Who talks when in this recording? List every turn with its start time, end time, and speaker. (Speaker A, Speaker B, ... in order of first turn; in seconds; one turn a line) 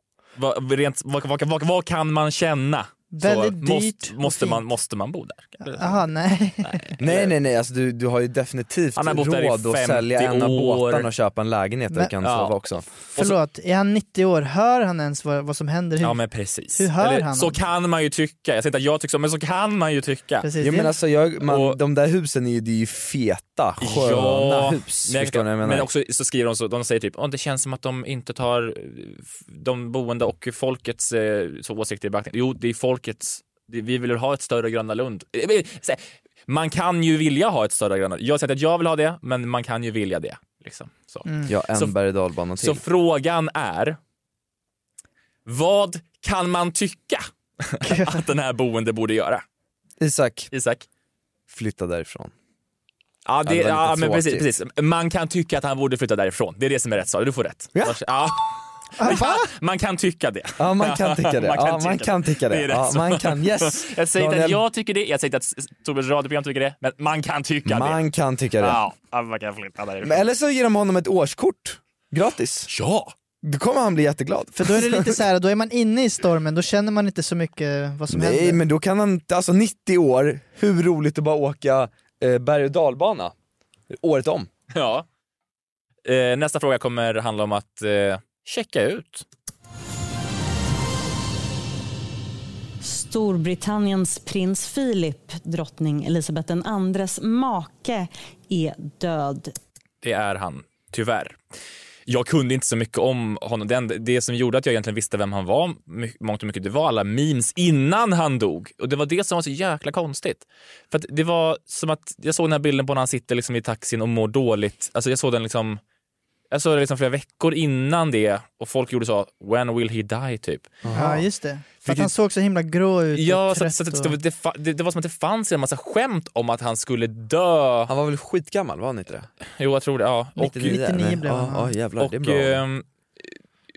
Speaker A: 0.4-6.1
Speaker B: 3.1-4.6
Speaker B: 5.6-6.9
Speaker A: 6.6-7.3
Speaker C: 7.0-12.8
Speaker A: 8.9-11.1
Speaker A: 12.2-12.5
Speaker B: 13.2-16.2
Speaker A: 16.0-20.5
Speaker B: 16.7-17.5
Speaker B: 20.4-20.9
Speaker C: 20.6-25.9
Speaker A: 21.4-21.8
Speaker A: 23.8-41.9
Speaker B: 41.2-41.5
Speaker C: 41.5-42.8
Speaker A: 42.6-44.0
Speaker A: 45.5-49.4
Speaker B: 47.8-48.1
Speaker C: 50.0-50.5
Speaker A: 50.5-50.9
Speaker C: 51.5-52.3
Speaker A: 53.2-68.0
Speaker C: 53.4-54.4
Speaker B: 59.0-59.5
Speaker C: 60.6-64.6
Speaker C: 67.6-68.8
Speaker A: 68.6-70.2
Speaker C: 70.0-72.7
Speaker A: 72.7-73.1
Speaker C: 73.4-75.2
Speaker B: 74.5-78.6
Speaker C: 78.1-83.3
Speaker C: 83.9-84.5
Speaker A: 84.7-85.0
Speaker A: 86.0-89.2
Speaker D: 92.8-99.5
Speaker A: 100.0-101.4
Speaker A: 102.1-115.8
Speaker A: 116.5-120.8
Speaker C: 120.8-121.2
Speaker B: 120.9-124.1
Speaker A: 123.1-127.9
Speaker C: 127.9-129.3
Speaker A: 129.6-130.7
Speaker C: 130.4-132.6
Speaker B: 130.4-131.7
Speaker A: 132.0-133.3